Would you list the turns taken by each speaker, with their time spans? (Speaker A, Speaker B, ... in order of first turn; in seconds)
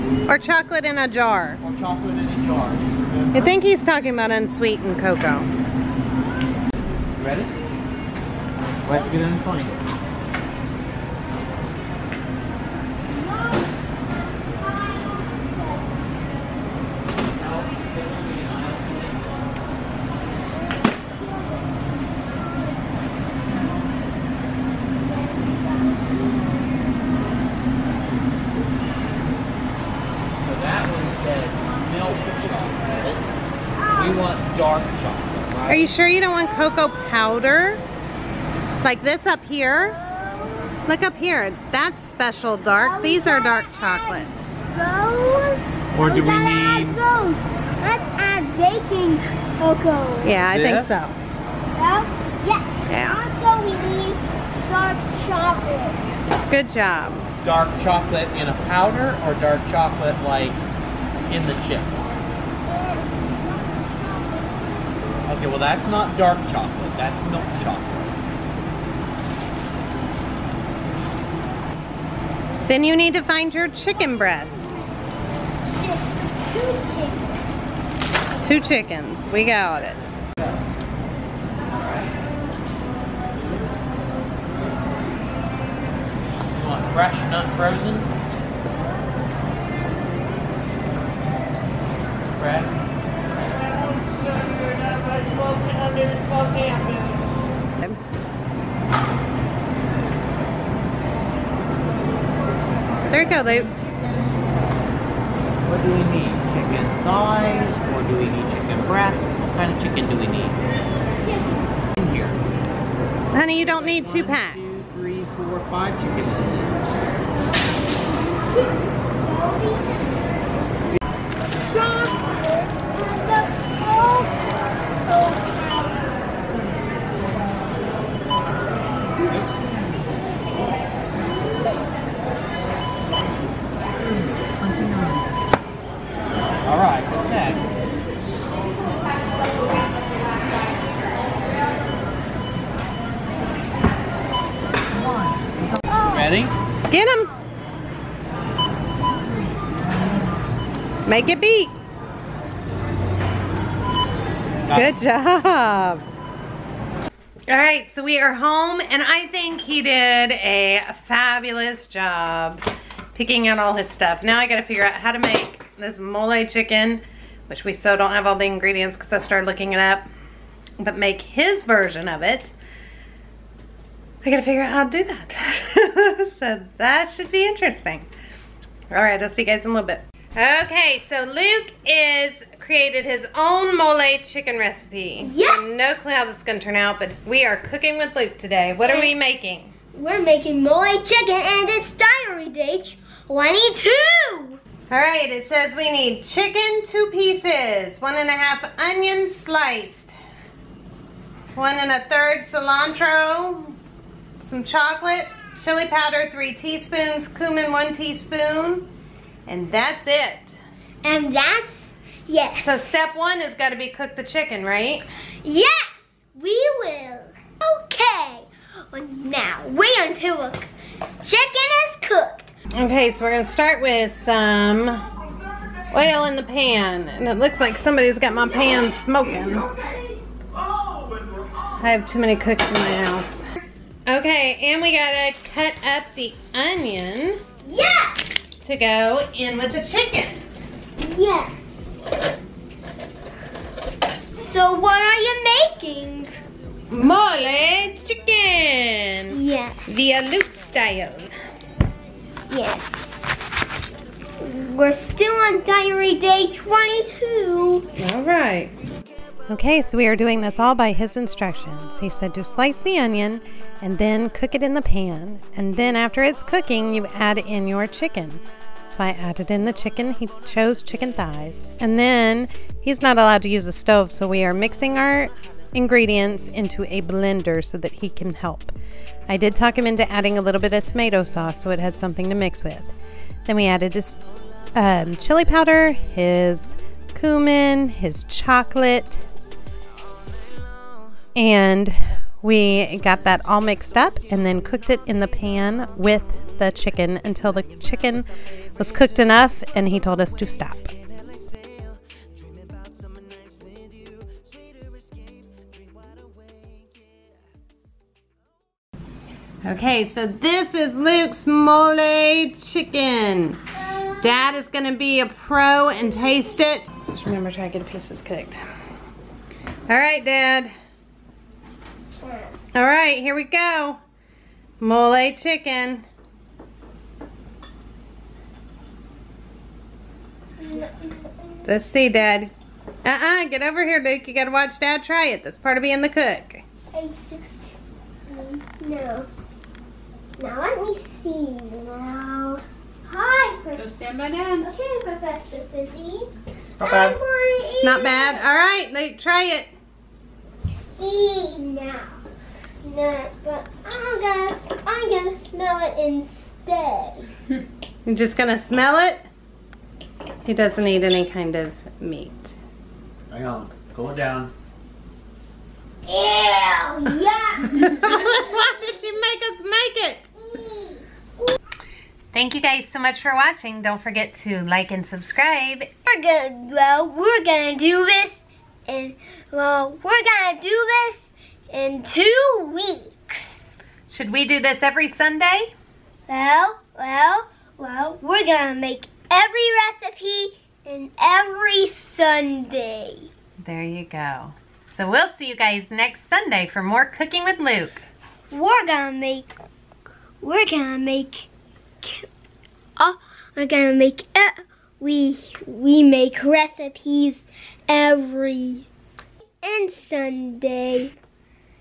Speaker A: 0.2-1.6, 3.3-5.5, 35.7-37.8, 38.8-40.0, 40.9-44.5, 50.2-51.2, 52.9-53.2, 56.5-57.3, 72.7-74.7, 78.4-80.1, 103.1-103.7, 113.3-114.8, 146.9-147.3, 151.1-151.7, 154.7-156.0, 157.5-162.6, 163.1-170.0, 170.8-172.5, 174.2-178.1, 178.9-189.7, 194.9-200.1, 201.5-203.8, 204.4-208.9, 209.5-210.6, 212.6-215.0, 222.8-225.0, 225.9-229.7, 231.8-233.4, 234.1-237.4, 238.6-240.4, 246.9-251.3, 258.0-258.7, 259.5-278.7, 279.3-282.9, 283.4-284.2, 284.7-289.2, 291.3-298.2, 298.8-300.9, 309.6-313.6, 314.2-318.6, 319.9-320.7, 322.7-324.0, 324.8-326.0, 331.6-332.5, 333.0-336.6, 347.8-349.7, 358.1-359.2, 360.4-362.6, 367.7-370.3, 372.3-375.9, 384.1-385.7, 393.6-398.0
Speaker B: 1.6-3.5, 7.2-7.5, 8.8-9.8, 17.3-19.4, 30.4-33.2, 33.9-35.9, 45.9-47.0, 50.5-51.0, 57.4-60.6, 61.3-62.1, 65.3-68.1, 86.5-88.1, 92.3-92.7, 93.4-97.3, 105.6-110.6, 112.0-112.4, 113.5-116.7, 129.2-130.0, 134.1-135.2, 136.6-137.7, 144.9-146.5, 154.6-155.0, 346.8-347.1, 363.3-364.5
Speaker C: 13.1-13.7, 14.5-15.8, 25.2-26.6, 33.8-34.2, 40.0-40.8, 42.7-50.4, 51.7-56.1, 62.7-64.7, 75.6-77.4, 111.1-111.6, 117.6-120.6, 121.6-126.2, 185.2-185.7, 188.8-189.1, 189.9-194.6, 211.0-212.9, 215.4-215.8, 216.3-220.7, 221.2-222.5, 237.6-238.3, 241.0-241.6, 244.5-246.3, 249.3-249.8, 252.5-252.9, 254.4-257.9, 313.8-314.5, 315.9-316.4, 322.2-322.5, 330.6-331.6, 336.9-337.7, 338.3-339.3, 340.4-348.5, 351.0-352.2, 352.8-357.2, 366.1-368.7, 370.5-371.0, 376.1-383.6, 386.3-393.3, 398.5-399.5, 400.4-401.5, 402.0-402.3, 403.0-408.9, 409.6-411.1